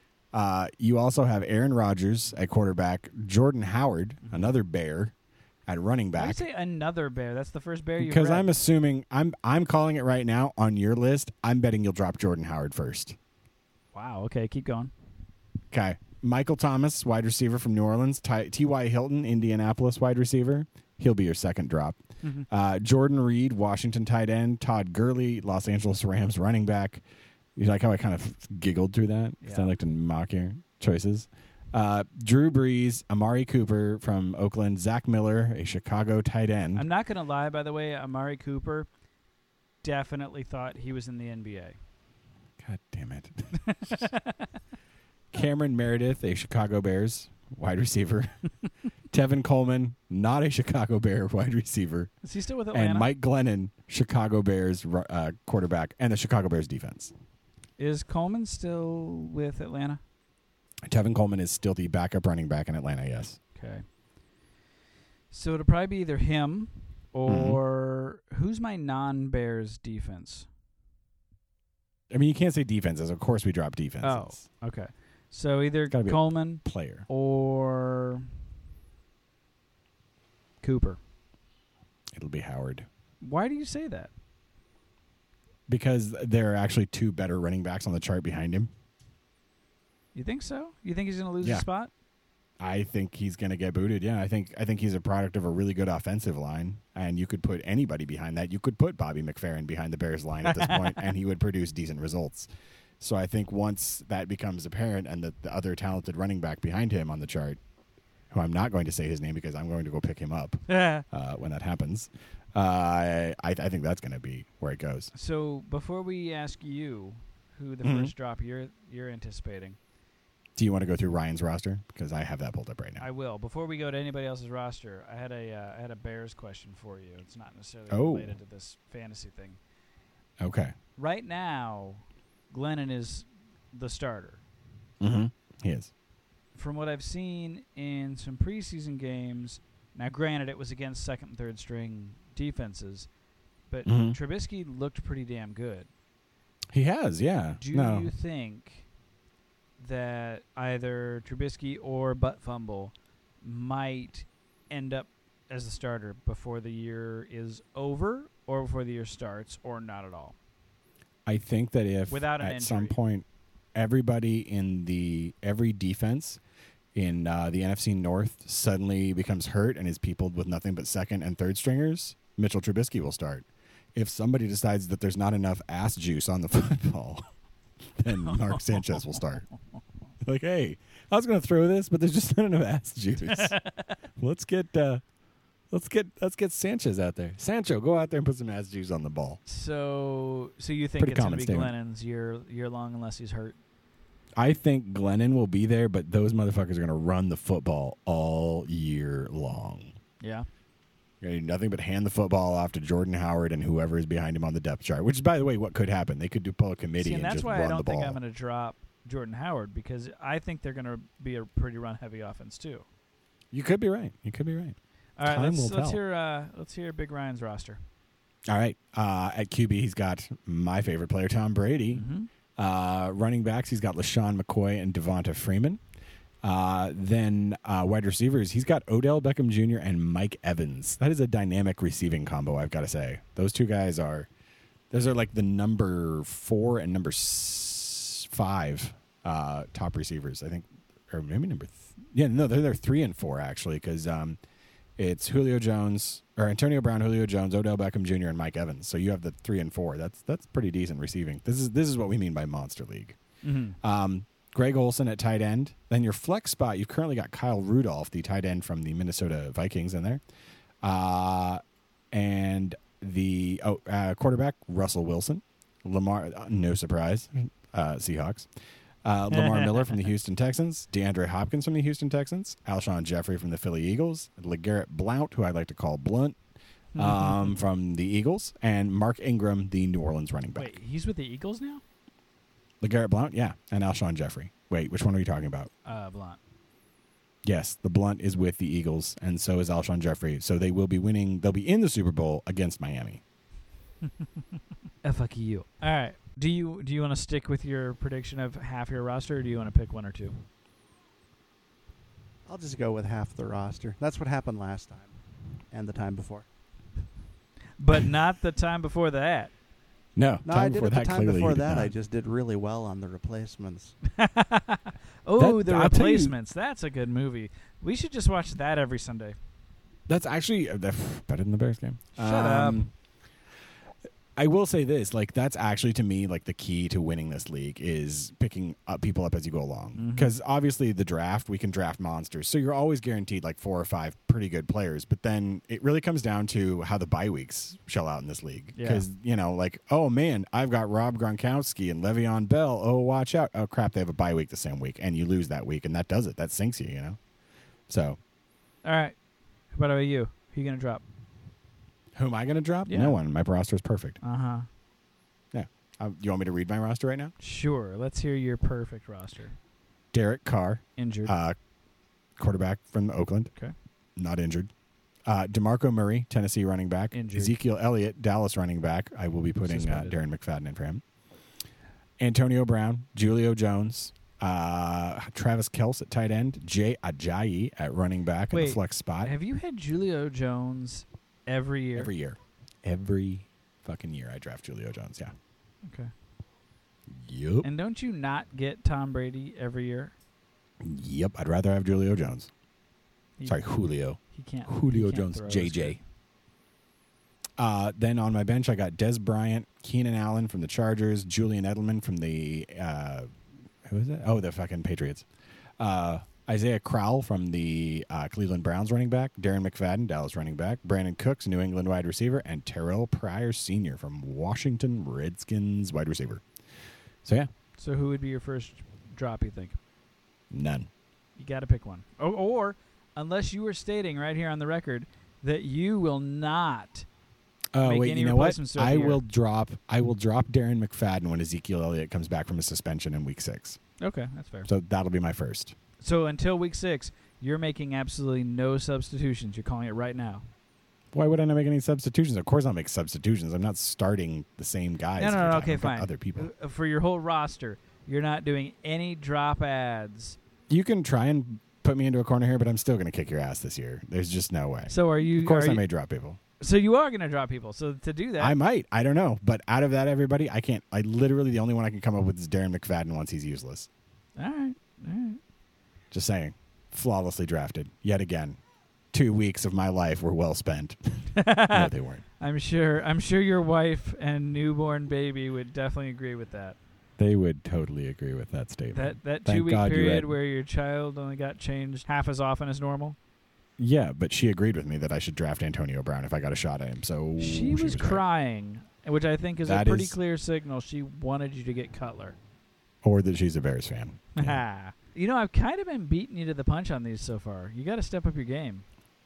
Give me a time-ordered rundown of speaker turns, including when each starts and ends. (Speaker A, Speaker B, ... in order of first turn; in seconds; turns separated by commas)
Speaker A: 0.3-5.1, Speaker B: 4.2-4.5, Speaker A: 5.7-6.4, Speaker B: 6.2-8.5, Speaker A: 8.0-13.2, Speaker B: 13.9-14.9, Speaker A: 15.7-27.0, Speaker A: 27.6-36.9, Speaker B: 29.4-29.7, Speaker B: 36.8-38.9, Speaker B: 39.8-41.8, Speaker A: 42.6-44.0, Speaker B: 43.7-44.4, Speaker A: 45.3-48.3, Speaker A: 49.1-52.1, Speaker B: 52.2-53.1, Speaker A: 52.7-57.1, Speaker B: 57.8-60.0, Speaker A: 60.9-63.4, Speaker B: 63.5-63.9, Speaker B: 65.3-70.5, Speaker A: 67.3-67.6, Speaker A: 72.1-74.4, Speaker B: 74.0-78.3, Speaker A: 75.9-77.1, Speaker B: 80.6-81.0, Speaker A: 82.1-82.9, Speaker B: 83.2-84.1, Speaker A: 85.7-88.7, Speaker B: 90.2-91.9, Speaker A: 92.6-102.5, Speaker B: 100.5-101.0, Speaker A: 103.0-107.6, Speaker A: 108.3-115.1, Speaker B: 110.7-111.0, Speaker B: 115.1-119.8, Speaker A: 117.8-118.1, Speaker A: 120.6-123.0, Speaker B: 123.0-129.6, Speaker A: 127.9-128.4, Speaker A: 130.4-130.7, Speaker B: 131.0-134.4, Speaker A: 135.0-135.9, Speaker B: 136.6-143.1, Speaker B: 143.7-145.9, Speaker A: 143.9-144.2, Speaker A: 146.7-148.1, Speaker B: 147.6-148.9, Speaker B: 149.8-160.4, Speaker A: 161.3-166.4, Speaker B: 162.1-163.0, Speaker A: 166.9-177.3, Speaker A: 178.0-179.5, Speaker B: 178.3-179.0, Speaker A: 180.2-183.6, Speaker B: 183.2-183.9, Speaker A: 184.2-185.0, Speaker A: 185.7-189.4, Speaker B: 189.5-193.6, Speaker A: 191.0-191.7, Speaker A: 194.4-199.9, Speaker B: 200.2-200.5, Speaker A: 201.2-208.2, Speaker B: 207.0-212.8, Speaker A: 213.5-216.0, Speaker B: 215.2-217.8, Speaker A: 218.5-222.1, Speaker B: 221.9-222.3, Speaker A: 222.6-225.8, Speaker A: 226.4-234.3, Speaker A: 234.9-244.4, Speaker A: 245.0-253.2, Speaker B: 253.4-253.8, Speaker A: 253.8-260.2, Speaker A: 260.8-261.6, Speaker A: 262.1-268.5, Speaker A: 269.0-276.4, Speaker B: 269.3-270.0, Speaker B: 277.0-277.5, Speaker A: 277.0-280.8, Speaker B: 280.6-281.8, Speaker A: 282.8-285.7, Speaker B: 285.9-286.4, Speaker A: 287.4-293.2, Speaker B: 295.0-300.4, Speaker C: 302.5-305.1, Speaker C: 305.7-306.5, Speaker B: 307.8-309.5, Speaker A: 310.2-311.9, Speaker C: 310.4-314.0, Speaker B: 314.1-319.4, Speaker A: 315.4-316.3, Speaker A: 320.1-322.9, Speaker B: 322.2-322.9, Speaker A: 324.4-347.2, Speaker B: 330.0-330.3, Speaker B: 338.8-339.1, Speaker A: 347.9-348.2, Speaker B: 348.8-349.1, Speaker B: 349.7-351.0, Speaker A: 352.1-354.2, Speaker B: 352.9-353.2, Speaker B: 354.2-354.7, Speaker A: 355.5-357.3, Speaker B: 357.4-359.6, Speaker A: 360.1-361.6, Speaker B: 361.0-361.4, Speaker A: 362.4-363.5, Speaker A: 364.2-364.7, Speaker A: 365.3-371.0, Speaker B: 367.1-367.6, Speaker B: 369.6-370.2, Speaker A: 372.2-379.3, Speaker B: 378.5-382.1, Speaker A: 382.0-385.3, Speaker B: 385.9-386.1, Speaker A: 387.1-387.7, Speaker B: 387.6-390.1, Speaker A: 390.8-392.5, Speaker A: 393.4-396.0, Speaker B: 394.3-396.0, Speaker A: 397.6-403.3, Speaker A: 403.9-405.2, Speaker A: 405.8-416.4, Speaker A: 417.2-417.5, Speaker B: 417.8-419.8, Speaker A: 420.5-420.9, Speaker B: 421.4-427.1, Speaker A: 427.7-433.8, Speaker B: 427.8-429.2, Speaker B: 434.0-434.7, Speaker A: 434.7-435.8, Speaker B: 436.0-440.4, Speaker A: 441.1-446.5, Speaker B: 445.2-450.4, Speaker A: 450.7-456.4, Speaker B: 454.9-455.8, Speaker B: 456.6-458.6, Speaker A: 458.4-463.9, Speaker B: 464.4-465.4, Speaker A: 466.1-468.6, Speaker A: 469.1-472.2, Speaker B: 471.4-476.8, Speaker A: 477.2-480.3, Speaker B: 478.9-483.2, Speaker A: 483.8-488.2, Speaker B: 487.4-492.4, Speaker A: 489.6-490.2, Speaker A: 493.0-494.6, Speaker B: 494.4-498.8